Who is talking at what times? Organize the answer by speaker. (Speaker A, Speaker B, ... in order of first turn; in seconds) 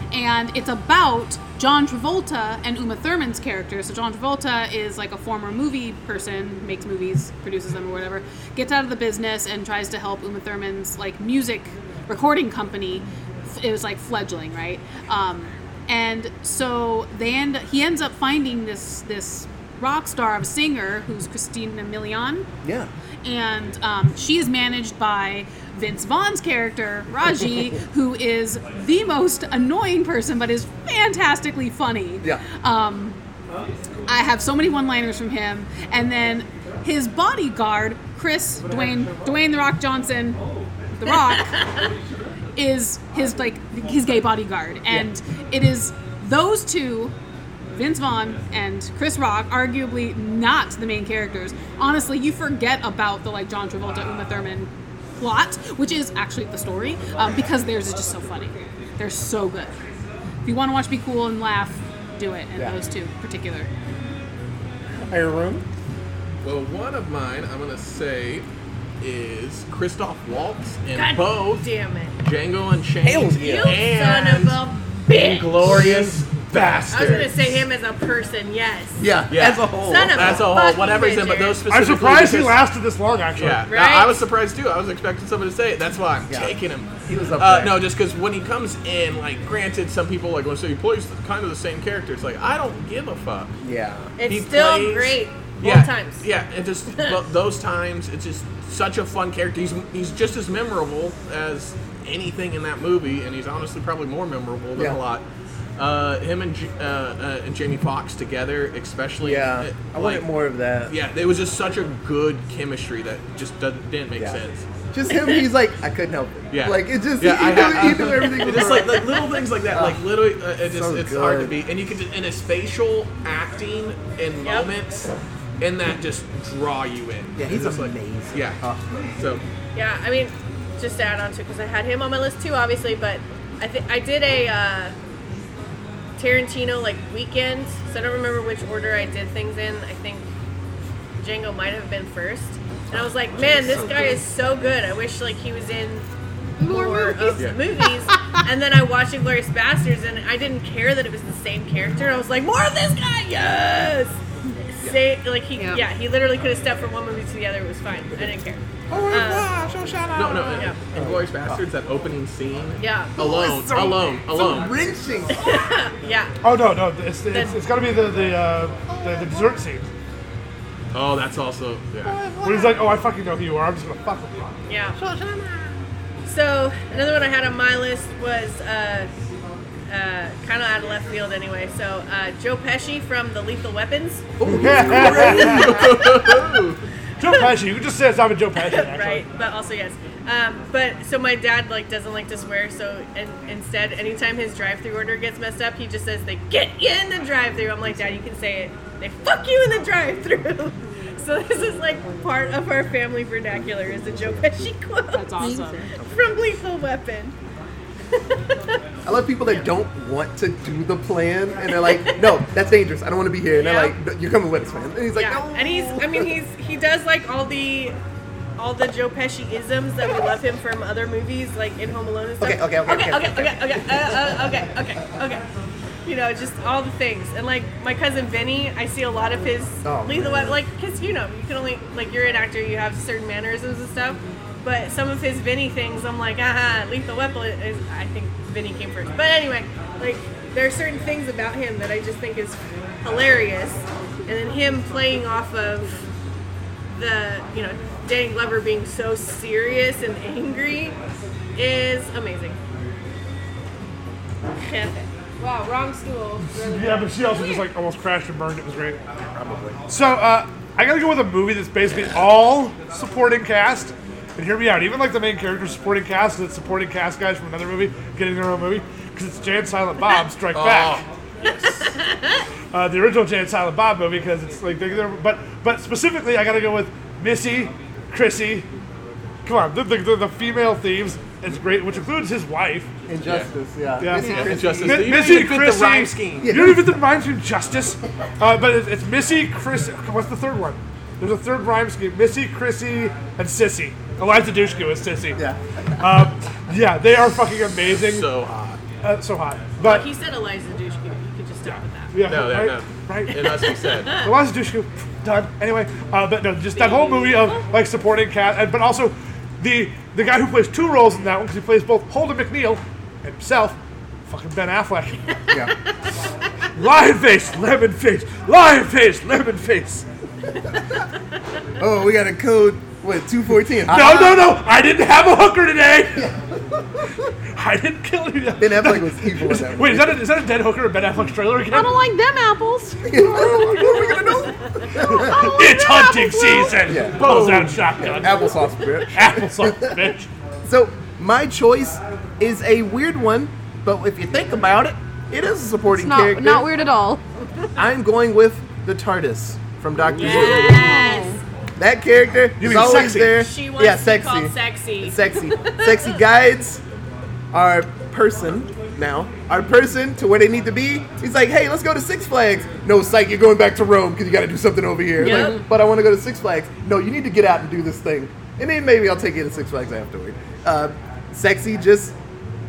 Speaker A: 0.1-22.5, 23.2-33.2, 34.1-40.4, 41.0-41.5, 42.6-47.1, 47.7-59.8, 60.5-63.7, 205.1-205.8
Speaker B: 22.6-22.9, 65.1-65.6, 73.0-73.8, 75.6-76.2, 79.0-80.5, 86.3-86.5, 87.1-87.9, 93.6-94.1, 109.2-111.0, 114.9-119.1, 119.7-120.0, 120.7-121.6, 127.4-129.1, 142.9-144.3, 158.9-161.6, 163.2-165.5, 168.9-169.5, 172.1-172.6, 175.0-175.6, 184.4-186.1, 209.1-216.3, 222.4-224.6, 229.8-230.6, 259.3-259.8, 283.1-285.4, 286.4-286.9, 295.4-296.2, 321.8-324.6, 326.2-326.8, 328.6-330.2, 333.1-335.5, 336.9-340.1, 340.6-346.7, 347.8-350.9, 351.8-356.8, 357.5-372.1
Speaker C: 66.4-68.5, 69.0-71.7, 72.2-77.7, 79.3-82.6, 83.4-93.5, 94.2-105.2, 105.8-110.3, 110.9-114.7, 116.5-128.6, 129.2-129.4, 160.1-164.8, 170.9-172.2, 184.8-186.8, 270.5-271.9, 284.2-286.7, 297.8-298.8, 302.2-304.2, 337.1-337.9
Speaker D: 71.0-72.2, 73.3-75.7, 76.9-79.1, 79.8-81.6, 83.7-84.2, 94.2-96.2, 124.4-124.7, 129.8-134.9, 136.2-140.3, 141.2-146.1, 146.6-159.5, 162.8-163.2, 165.3-166.3, 167.3-167.6, 174.7-175.0, 176.2-179.1, 179.9-184.3, 188.6-207.3, 208.2-208.8, 211.8-212.3, 213.5-213.9, 215.1-218.0, 218.6-225.4, 226.1-246.1, 246.9-251.0, 251.6-252.6, 254.6-257.7, 271.4-272.4, 299.8-302.1, 303.4-304.3, 306.7-307.7, 334.0-335.2, 350.2-351.4, 352.9-356.2, 365.2-365.6
Speaker E: 81.7-83.7, 166.4-169.9, 172.4-174.5, 184.5-185.8, 187.2-189.3, 256.5-259.0, 259.9-271.1, 272.7-278.7, 279.4-282.9, 284.0-295.4, 296.0-298.3, 299.0-300.1, 301.6-303.6, 304.1-315.4, 316.8-320.1, 323.8-326.3, 327.6-332.0, 333.4-333.9, 334.9-340.3, 352.6-353.4
Speaker F: 146.6-148.4, 155.6-155.8, 205.4-205.9, 331.7-333.2, 335.1-336.9, 345.9-347.2, 350.2-351.4